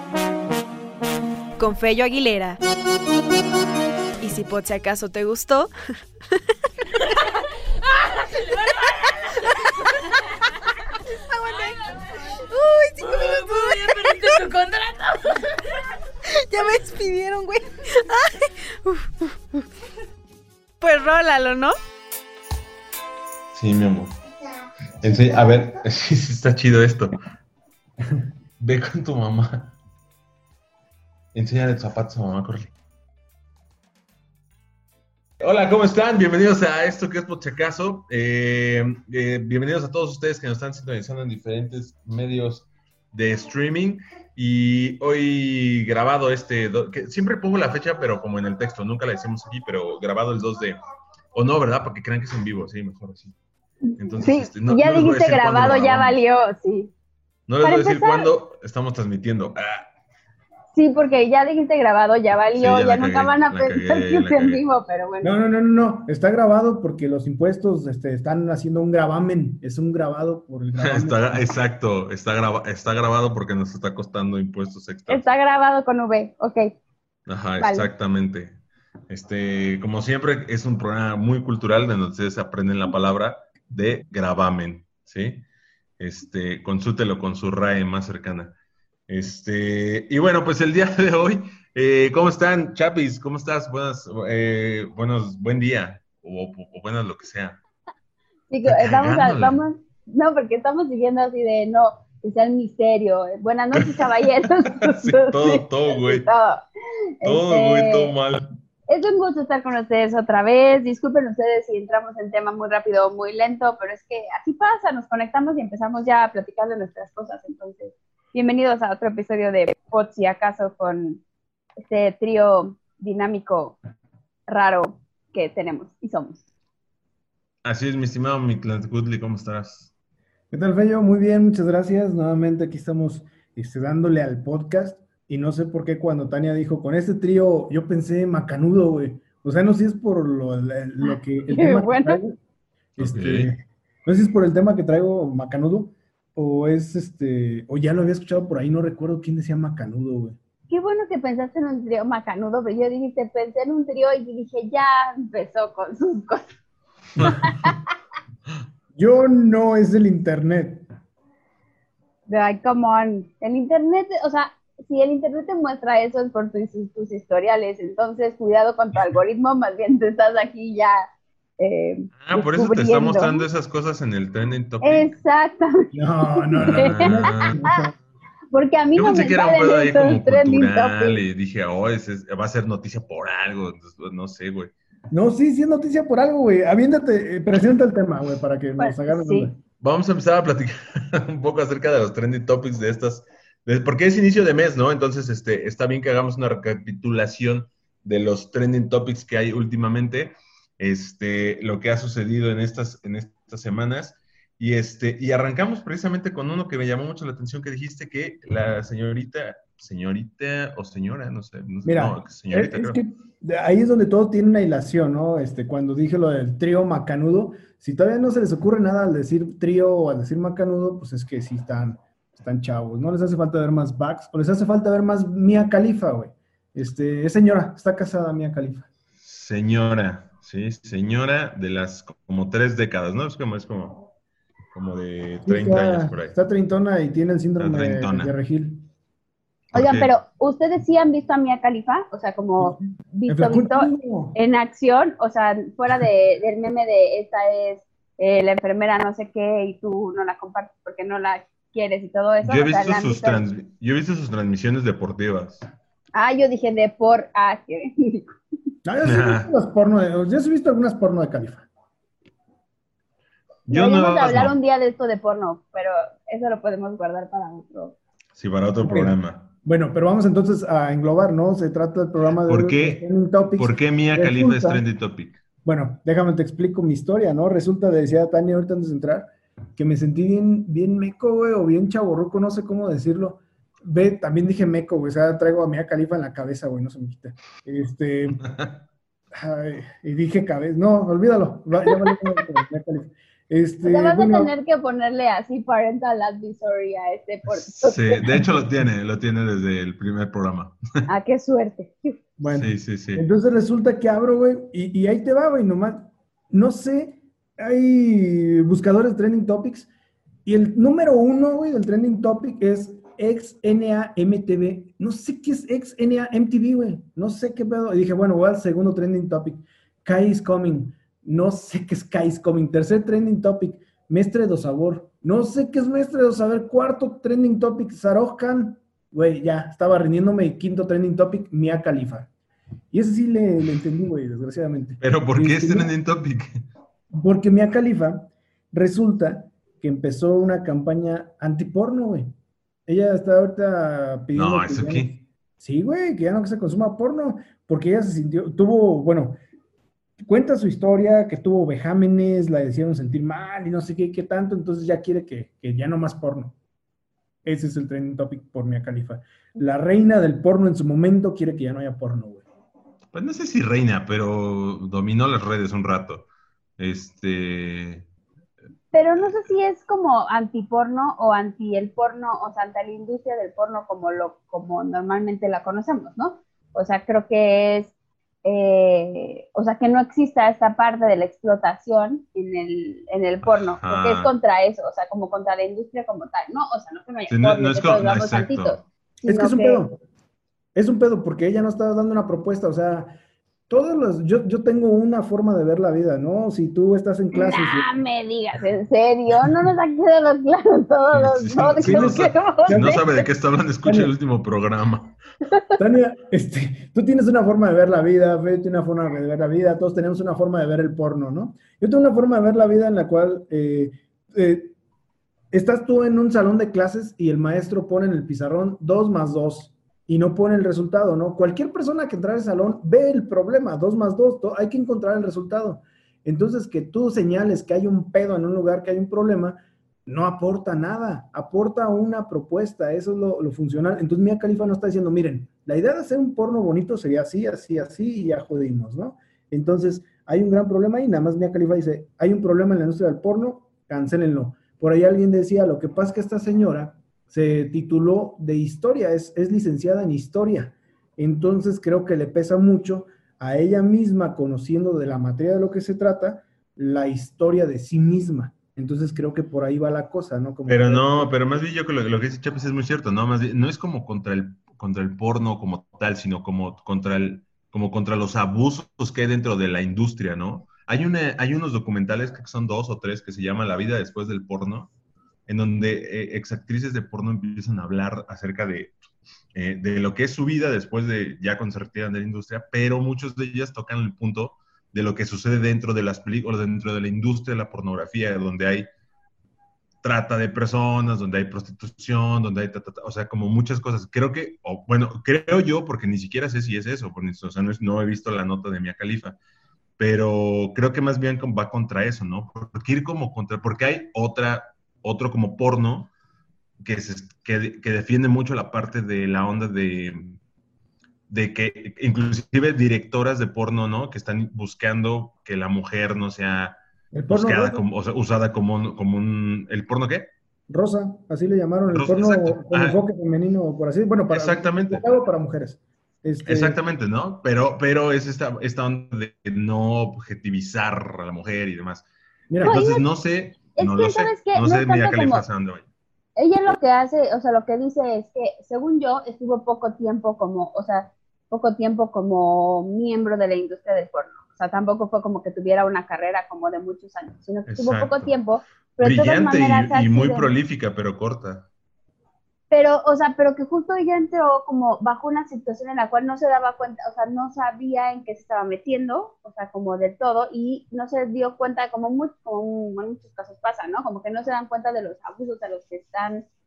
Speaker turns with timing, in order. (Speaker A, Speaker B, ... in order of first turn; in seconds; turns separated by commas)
Speaker A: 1.6-2.6, Speaker A: 4.2-5.7, Speaker A: 11.3-11.9, Speaker A: 12.4-14.4, Speaker B: 13.0-15.4, Speaker A: 16.4-19.7, Speaker A: 20.8-21.8, Speaker C: 23.5-24.1, Speaker C: 25.0-27.2, Speaker C: 28.6-29.7, Speaker C: 31.3-32.7, Speaker C: 35.4-50.8, Speaker C: 51.3-53.4, Speaker D: 53.9-56.9, Speaker C: 54.0-56.2, Speaker C: 57.5-59.9, Speaker D: 57.6-58.3, Speaker D: 60.7-65.3, Speaker C: 62.5-64.6, Speaker E: 65.2-71.5, Speaker C: 70.8-75.3, Speaker D: 75.1-76.7, Speaker C: 77.3-85.5, Speaker D: 77.6-77.9, Speaker C: 86.0-88.5, Speaker C: 89.1-97.6, Speaker D: 98.5-106.6, Speaker C: 98.6-99.6, Speaker C: 103.8-104.1, Speaker C: 104.6-106.3, Speaker D: 107.2-108.1, Speaker C: 107.2-108.5, Speaker D: 108.9-121.2, Speaker D: 121.8-123.8, Speaker D: 124.5-126.4, Speaker C: 127.6-129.9, Speaker E: 130.5-142.4, Speaker D: 141.0-142.2, Speaker C: 143.0-143.5, Speaker E: 143.0-150.4, Speaker D: 150.7-156.5, Speaker D: 157.3-157.8, Speaker E: 159.0-160.9, Speaker D: 162.3-171.0, Speaker D: 171.6-173.4, Speaker C: 172.2-175.1, Speaker D: 174.8-177.9, Speaker E: 175.9-177.9, Speaker C: 176.6-177.6, Speaker D: 178.5-181.2, Speaker C: 178.9-184.7, Speaker E: 185.1-189.6, Speaker D: 188.8-189.5, Speaker C: 189.8-213.0, Speaker E: 211.8-228.9, Speaker C: 229.2-234.1, Speaker C: 234.7-236.3, Speaker E: 235.4-238.8, Speaker C: 237.6-238.3, Speaker C: 239.7-240.1, Speaker D: 239.7-253.4, Speaker E: 242.6-244.4, Speaker C: 252.4-255.7, Speaker D: 256.1-258.4, Speaker E: 258.9-261.7, Speaker C: 259.0-259.5, Speaker C: 263.7-264.5, Speaker D: 263.7-267.9, Speaker C: 268.4-269.5, Speaker E: 268.8-274.8, Speaker C: 272.5-273.0, Speaker C: 273.6-275.4, Speaker E: 275.6-288.4, Speaker E: 289.3-294.5, Speaker D: 293.8-298.2, Speaker C: 297.8-300.8, Speaker D: 301.1-302.2, Speaker E: 302.4-309.9, Speaker C: 302.5-303.2, Speaker E: 310.5-332.3, Speaker E: 332.9-335.9, Speaker C: 335.0-336.6, Speaker E: 337.1-342.3, Speaker E: 342.9-349.4, Speaker C: 344.3-345.1, Speaker E: 350.2-356.6, Speaker E: 357.4-362.4, Speaker C: 363.1-366.3, Speaker C: 366.8-368.1, Speaker D: 368.9-377.9, Speaker C: 369.2-369.5, Speaker D: 378.4-389.9, Speaker C: 383.4-384.3, Speaker C: 387.3-388.8, Speaker E: 389.3-390.0, Speaker E: 390.8-393.2, Speaker E: 393.7-397.9, Speaker D: 397.3-403.3, Speaker C: 401.1-405.1, Speaker E: 401.8-403.0, Speaker E: 403.8-404.1, Speaker D: 405.5-405.8, Speaker E: 405.8-414.7, Speaker E: 415.5-461.3, Speaker C: 460.7-474.9, Speaker C: 475.5-479.0, Speaker C: 479.6-488.9, Speaker C: 490.0-499.4, Speaker C: 500.0-506.1, Speaker C: 506.8-510.4, Speaker C: 511.3-516.8, Speaker E: 517.1-517.9, Speaker C: 517.3-520.3, Speaker E: 520.7-526.8, Speaker C: 521.9-523.0, Speaker C: 524.3-525.2, Speaker C: 526.5-532.1, Speaker E: 532.5-532.8, Speaker C: 532.6-535.9, Speaker D: 532.6-533.0, Speaker D: 533.8-535.4, Speaker D: 536.4-550.5, Speaker C: 547.7-548.3, Speaker C: 549.0-551.6, Speaker D: 552.7-566.5